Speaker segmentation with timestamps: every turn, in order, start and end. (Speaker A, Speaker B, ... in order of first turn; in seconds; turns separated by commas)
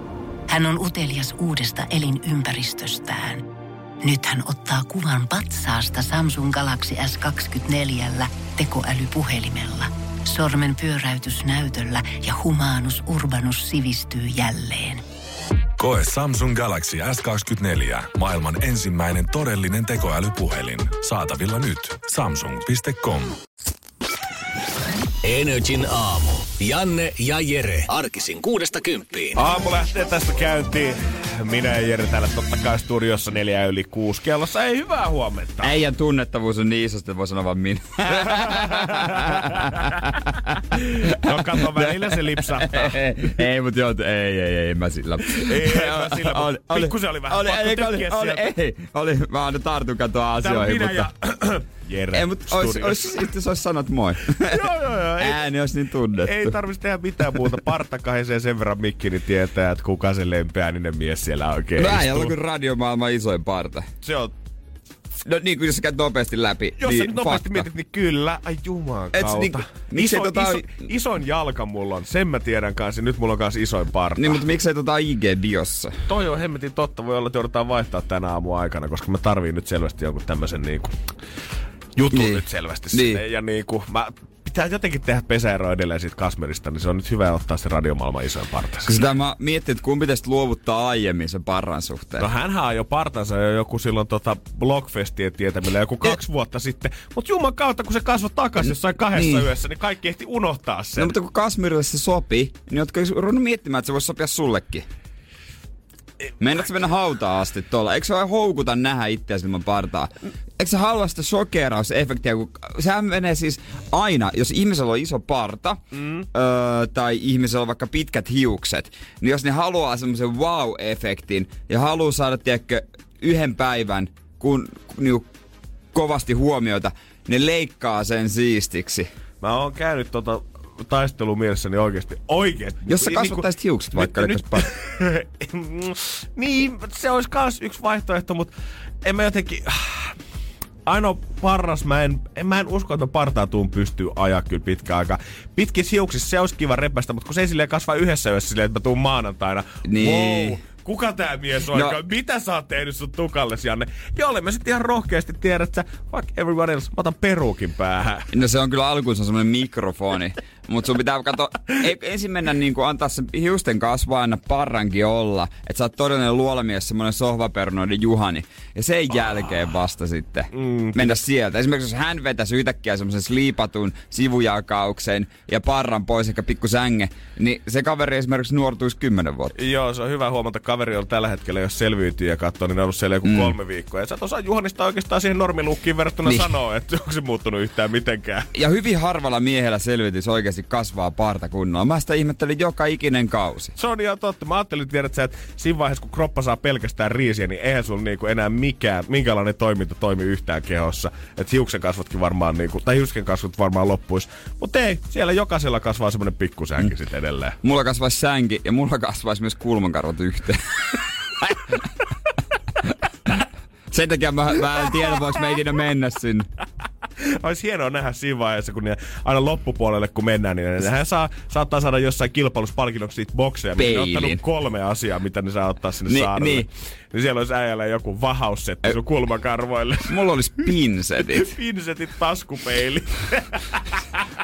Speaker A: 0.5-3.4, Speaker A: 4.0-15.0, Speaker B: 15.8-23.4, Speaker C: 25.2-29.4, Speaker D: 29.4-35.8, Speaker E: 35.6-51.1, Speaker D: 38.2-39.9, Speaker D: 40.7-43.2, Speaker D: 45.3-48.5, Speaker D: 50.4-53.3, Speaker E: 52.1-56.5, Speaker D: 54.4-55.4, Speaker D: 56.1-62.3, Speaker E: 61.8-63.9, Speaker D: 64.0-64.3, Speaker E: 65.2-67.7, Speaker D: 66.8-74.4, Speaker E: 69.1-70.8, Speaker E: 74.2-76.0, Speaker D: 76.1-81.0, Speaker D: 82.0-89.0, Speaker E: 82.1-83.2, Speaker E: 88.8-92.3, Speaker D: 92.2-101.1, Speaker E: 99.1-99.5, Speaker E: 101.0-104.8, Speaker E: 106.4-115.8, Speaker D: 116.0-116.2, Speaker E: 116.3-125.2, Speaker E: 125.9-129.1, Speaker D: 129.4-140.2, Speaker E: 132.9-134.7, Speaker D: 140.8-158.3, Speaker E: 149.9-150.6, Speaker E: 158.3-179.5, Speaker D: 170.5-171.2, Speaker D: 179.6-188.5, Speaker E: 183.2-183.5, Speaker E: 188.5-193.7, Speaker D: 193.8-207.6, Speaker E: 207.6-211.8, Speaker E: 213.3-216.5, Speaker D: 217.2-230.2, Speaker E: 223.8-224.4, Speaker E: 226.1-226.7, Speaker E: 230.0-231.5, Speaker D: 231.3-234.2